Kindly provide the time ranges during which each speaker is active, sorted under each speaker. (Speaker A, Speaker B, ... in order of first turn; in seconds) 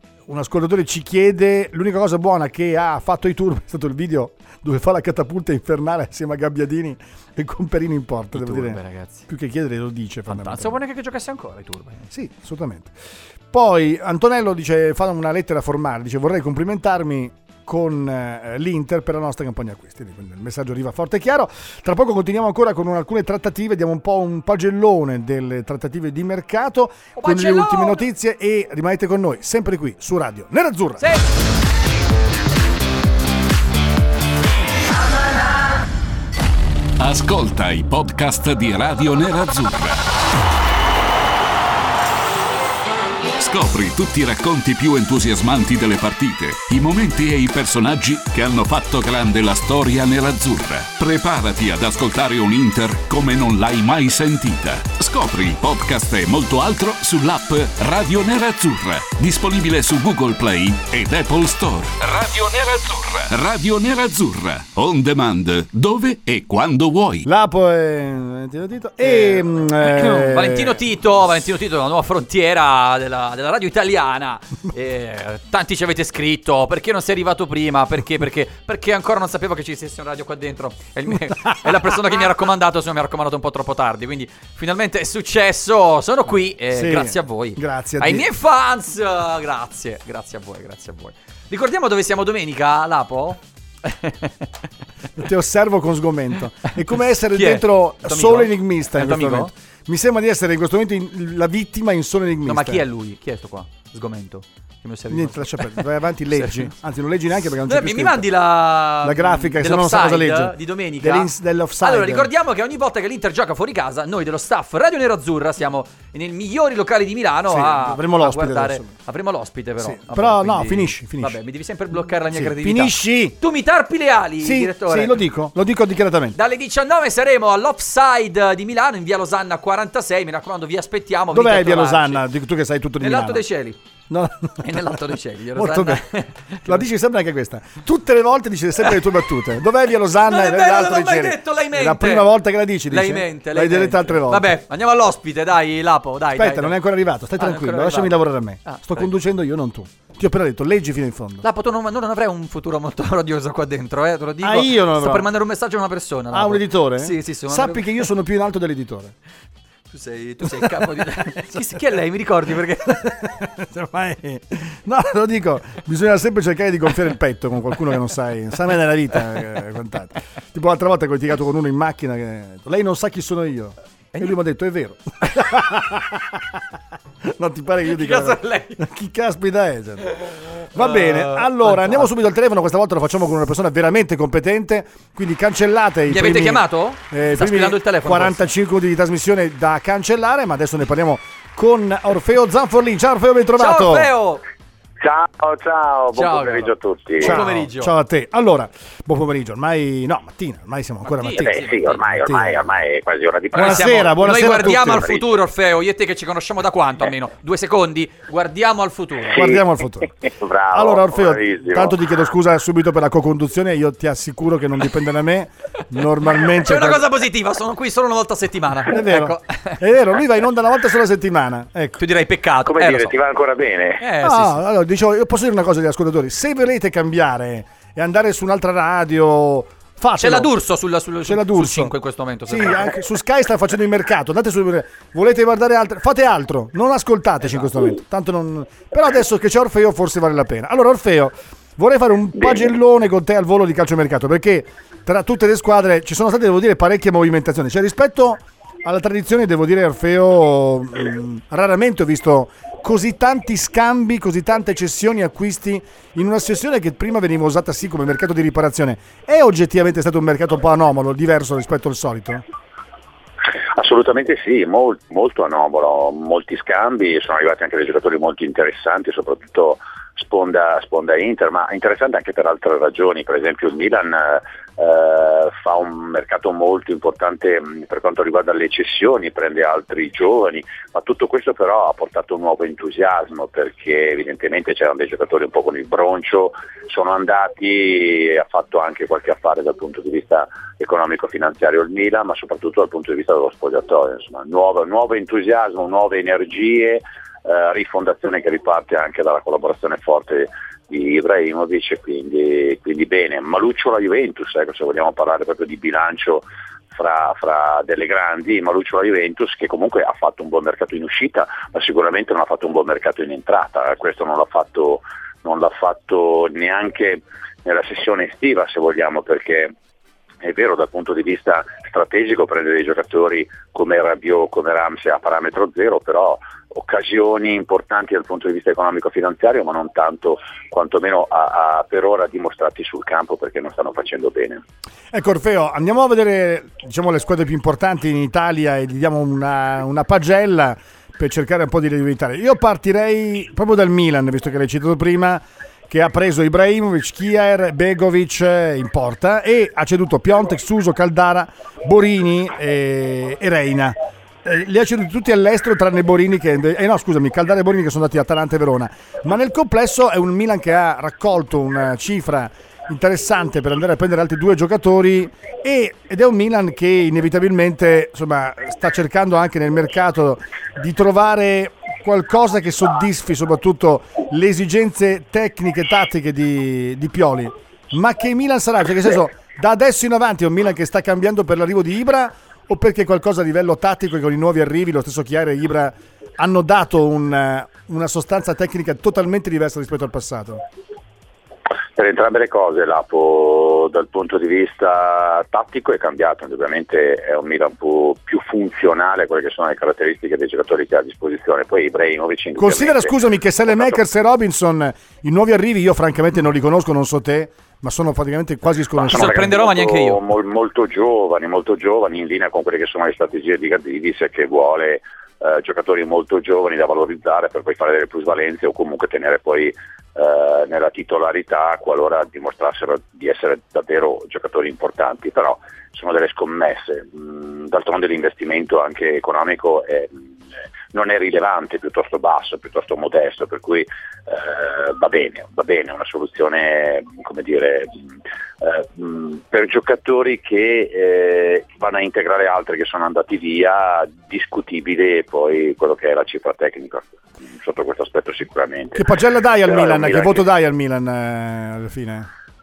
Speaker A: 0.3-10.8, 12.1-12.9, 13.5-31.0, 67.2-70.8, 81.3-81.7, 86.7-88.3, 95.2-102.8, 105.1-108.3, 109.0-112.3, 117.5-118.9, 119.8-121.4, 122.3-123.4, 124.4-126.4, 131.3-133.4, 134.1-135.0, 135.5-136.1, 136.6-144.5, 146.3-151.4, 154.4-155.3, 156.3-159.1, 160.4-161.6, 162.8-176.6, 177.2-194.1, 197.2-202.6, 203.5-205.1, 209.3-210.1, 210.7-217.0, 218.9-222.0, 224.2-230.5, 231.2-231.9, 232.5-262.4, 335.1-390.6, 402.6-409.5, 448.9-452.3
Speaker B: 8.3-9.2, 10.3-12.1, 27.1-28.0, 31.0-31.2, 69.0-94.5, 97.3-99.5, 102.5-106.7, 107.6-125.2, 126.3-132.2, 133.0-133.8, 134.6-136.8, 140.1-142.3, 142.9-146.8, 147.4-149.1, 151.4-158.1, 159.9-163.2, 177.8-178.8, 180.7-182.1, 186.1-188.5, 193.6-194.4, 196.1-197.9, 201.1-202.1, 203.5-209.4, 216.5-219.8, 222.0-223.2, 224.0-224.6, 230.2-232.9, 409.1-410.2
Speaker C: 37.0-40.0, 43.4-67.3
Speaker D: 195.0-197.4, 201.3-205.2, 209.3-209.6, 210.2-212.0, 222.6-224.0, 263.7-319.7, 320.4-334.6, 391.9-403.1, 403.7-403.9, 408.9-430.2, 430.9-438.1, 438.6-449.0, 449.6-450.4